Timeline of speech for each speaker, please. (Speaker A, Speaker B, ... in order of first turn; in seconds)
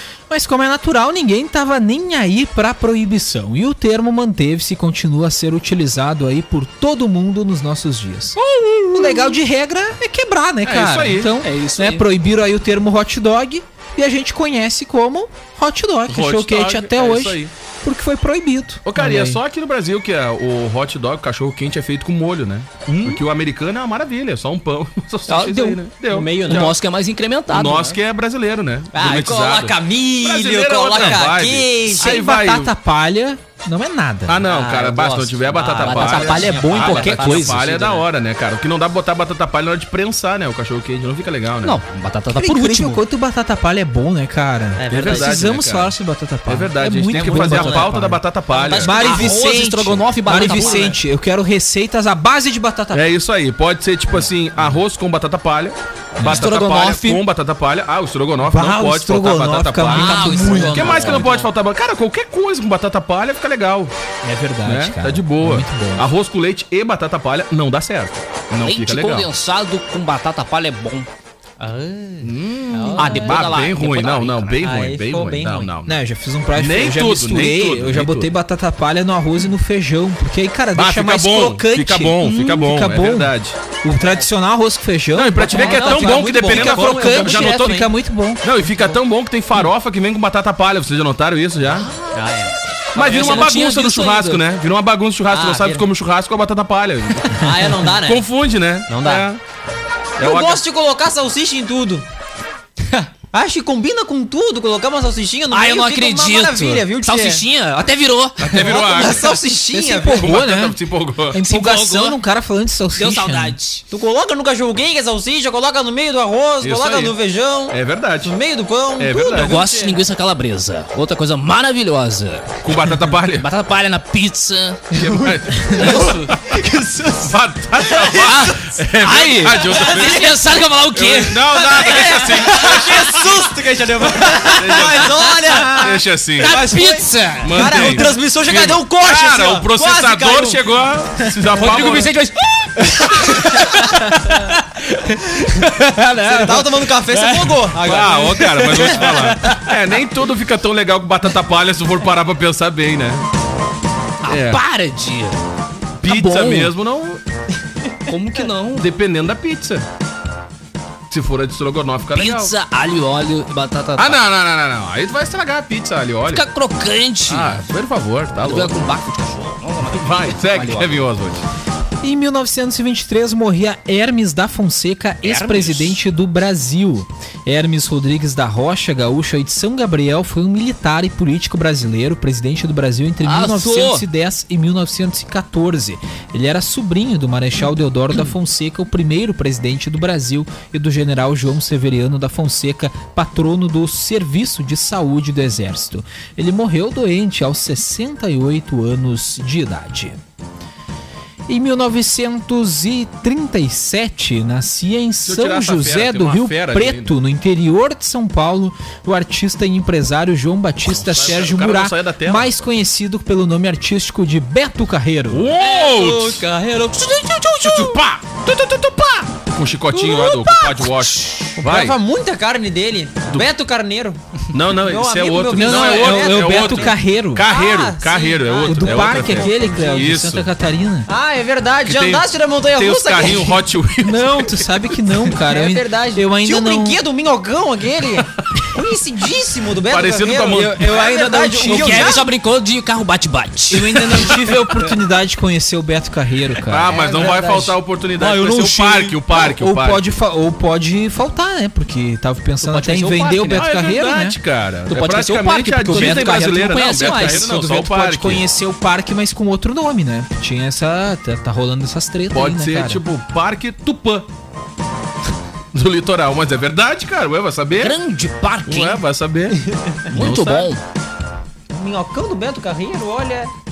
Speaker A: 0.3-8.4, 8.9-19.4, 31.9-34.4, 36.9-37.6, 42.3-48.2, 48.8-53.0, 56.2-56.5, 58.4-61.2, 64.2-66.1, 75.8-88.5, 109.7-110.8, 111.3-113.6, 172.0-200.2, 201.5-215.5, 225.5-227.5, 228.6-231.1, 234.0-237.0, 240.5-242.2, 243.7-246.9, 249.3-254.4, 255.9-263.0
Speaker B: 8.5-9.3, 10.6-11.3, 16.1-17.5, 18.8-26.7, 27.5-32.7, 34.3-41.8, 44.9-46.0, 46.5-49.0, 52.9-63.9, 64.6-69.3, 72.2-76.0, 76.5-78.3, 80.7-83.5, 85.1-87.8, 88.4-91.9, 92.9-99.4, 100.2-100.6, 108.4-109.3, 110.1-111.4, 116.6-117.2, 117.7-118.3, 119.0-119.6, 122.6-123.5, 124.9-126.5, 127.2-130.4, 130.9-133.4, 134.4-136.6, 137.4-142.1, 147.8-153.2, 154.2-154.6, 156.0-157.2, 158.8-159.8, 161.1-162.5, 164.0-166.4, 167.3-168.7, 169.9-171.4, 205.2-207.2, 210.8-212.7, 215.3-216.4, 217.6-218.2, 219.4-222.0, 224.5-230.5, 231.8-234.7, 239.9-240.9, 246.7-250.1, 253.5-258.4, 262.3-264.3, 265.7-267.9, 268.6-270.7
Speaker C: 11.4-12.1, 25.3-25.9, 26.4-28.0, 35.6-38.0, 41.6-43.0, 47.1-47.9, 48.8-51.0, 56.2-57.2, 59.9-61.2, 68.6-71.1, 72.9-74.6, 92.9-94.4, 105.5-109.0, 111.4-112.2, 112.9-113.8, 119.4-122.6, 123.3-124.9, 128.2-132.8, 135.4-135.8, 136.4-138.1, 141.5-147.8, 148.7-149.6, 154.2-155.4, 156.0-156.7, 158.1-158.8, 162.1-164.2, 166.2-167.6, 168.4-171.1, 175.2-176.0, 183.2-184.0, 215.7-218.0, 220.9-221.5, 241.6-244.9, 248.2-249.2, 252.6-253.7, 254.9-257.7, 267.8-269.0, 270.1-270.8
Speaker D: 26.1-26.7, 28.9-32.2, 34.4-37.5, 44.8-45.5, 48.5-49.4, 50.3-51.0, 60.5-61.5, 71.6-73.4, 74.6-75.7, 85.4-87.9, 92.1-92.5, 95.3-95.8, 97.3-98.2, 98.9-99.3, 100.2-102.0, 102.9-107.4, 108.5-110.3, 113.9-120.0, 125.7-128.4, 129.7-130.2, 131.5-140.6, 142.8-144.0, 146.2-149.2, 215.7-217.9, 219.9-220.6, 221.6-224.2, 224.7-230.1, 231.1-233.6, 235.4-242.3, 246.9-247.7, 269.7-270.1, 271.7-273.5